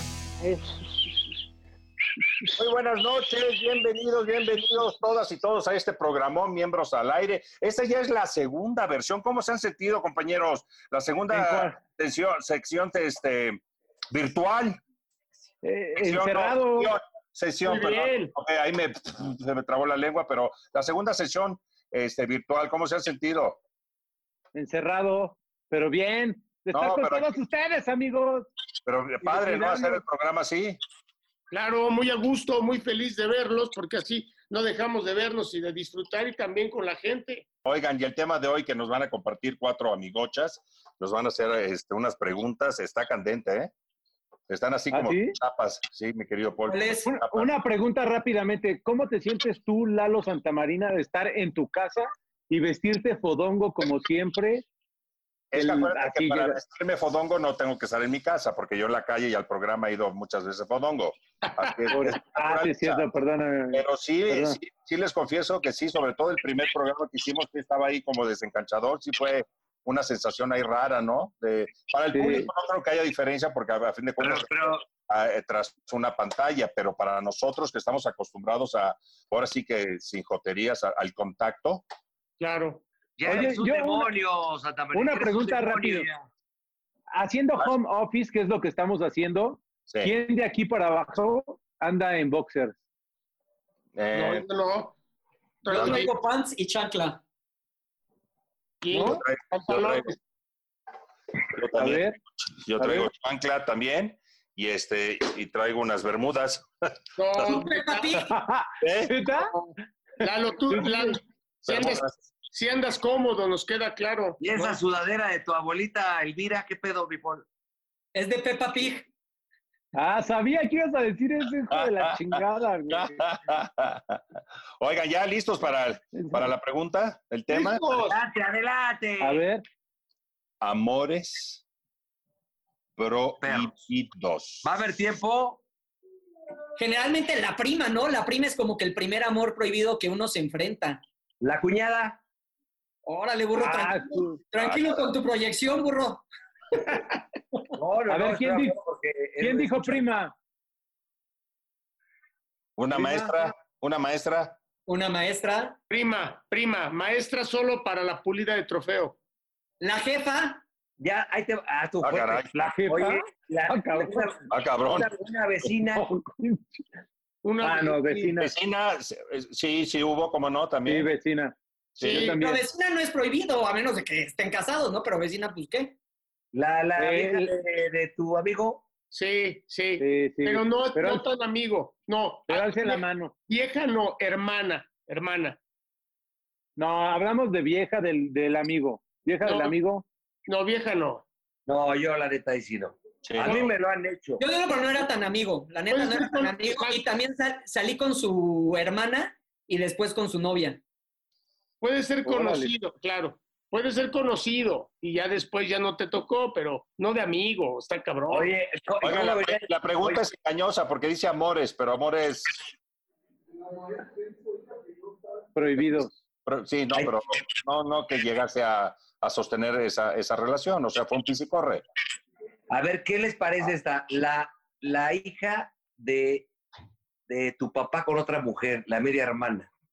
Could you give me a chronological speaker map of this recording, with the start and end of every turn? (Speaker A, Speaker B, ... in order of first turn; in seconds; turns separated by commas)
Speaker A: 0.4-0.8, Speaker B: 2.6-14.8, Speaker A: 11.3-11.8, Speaker A: 15.6-16.9, Speaker B: 16.0-23.6, Speaker C: 17.6-18.3, Speaker A: 24.5-28.5, Speaker B: 26.7-27.3, Speaker B: 28.9-30.8, Speaker A: 29.2-30.0, Speaker C: 31.5-37.5, Speaker B: 37.6-43.7, Speaker B: 44.5-47.5, Speaker A: 44.9-45.4, Speaker D: 46.7-47.1, Speaker A: 47.1-54.6, Speaker B: 55.5-63.0, Speaker A: 55.5-56.6, Speaker A: 61.9-64.6, Speaker B: 63.7-81.8, Speaker A: 72.1-72.5, Speaker E: 74.2-74.8, Speaker C: 82.4-82.8, Speaker E: 83.2-86.3, Speaker A: 83.3-84.1, Speaker A: 84.9-86.1, Speaker A: 87.1-92.8, Speaker B: 94.0-94.5, Speaker C: 94.1-94.9, Speaker C: 95.6-96.1, Speaker D: 95.7-97.2, Speaker B: 95.7-96.0, Speaker A: 95.7-96.0, Speaker C: 98.8-100.2, Speaker A: 98.9-99.2, Speaker B: 99.0-100.1, Speaker B: 101.6-102.1, Speaker A: 101.7-102.2, Speaker B: 102.6-106.7, Speaker A: 102.8-103.1, Speaker C: 107.2-108.2, Speaker B: 107.4-107.6, Speaker D: 107.5-108.3, Speaker A: 108.2-109.5, Speaker B: 108.8-109.2, Speaker C: 109.4-109.7, Speaker C: 110.2-114.4, Speaker A: 110.7-111.2, Speaker B: 111.7-112.1, Speaker E: 114.4-117.5, Speaker D: 118.2-119.1, Speaker A: 120.0-123.2, Speaker B: 121.7-124.2, Speaker B: 124.8-128.2, Speaker A: 126.1-126.5, Speaker E: 127.5-129.4, Speaker A: 129.2-129.6, Speaker B: 130.6-131.6, Speaker B: 133.0-134.7, Speaker E: 133.4-133.8, Speaker E: 134.6-135.6, Speaker D: 136.8-141.0, Speaker E: 141.4-142.2, Speaker D: 143.1-146.2, Speaker A: 143.6-144.4, Speaker B: 144.6-145.0, Speaker E: 147.8-150.1, Speaker A: 148.1-148.8, Speaker A: 149.4-150.3, Speaker B: 152.8-154.6, Speaker A: 152.9-153.5, Speaker D: 154.9-155.8, Speaker C: 155.9-159.2, Speaker D: 159.8-160.6, Speaker E: 161.0-166.1, Speaker B: 162.0-162.5, Speaker A: 162.5-164.3, Speaker B: 164.5-165.1, Speaker A: 165.9-166.6, Speaker C: 167.4-168.3, Speaker A: 167.6-168.5, Speaker B: 168.4-171.1, Speaker A: 170.9-171.5, Speaker B: 172.0-172.3, Speaker C: 172.0-172.3, Speaker A: 172.1-172.7, Speaker D: 172.3-176.0, Speaker E: 176.5-178.8, Speaker A: 177.0-177.5, Speaker C: 179.1-185.6, Speaker A: 180.0-181.3, Speaker A: 182.5-183.3, Speaker A: 186.8-190.1, Speaker C: 189.4-189.8, Speaker C: 190.5-191.2, Speaker E: 191.7-194.4, Speaker B: 193.2-193.7, Speaker D: 194.4-200.8, Speaker C: 195.9-197.0, Speaker C: 201.8-208.5, Speaker A: 202.2-202.7, Speaker E: 208.3-210.2, Speaker B: 209.0-212.5, Speaker A: 215.5-216.1, Speaker B: 216.5-221.8, Speaker E: 222.7-226.5, Speaker E: 227.3-229.7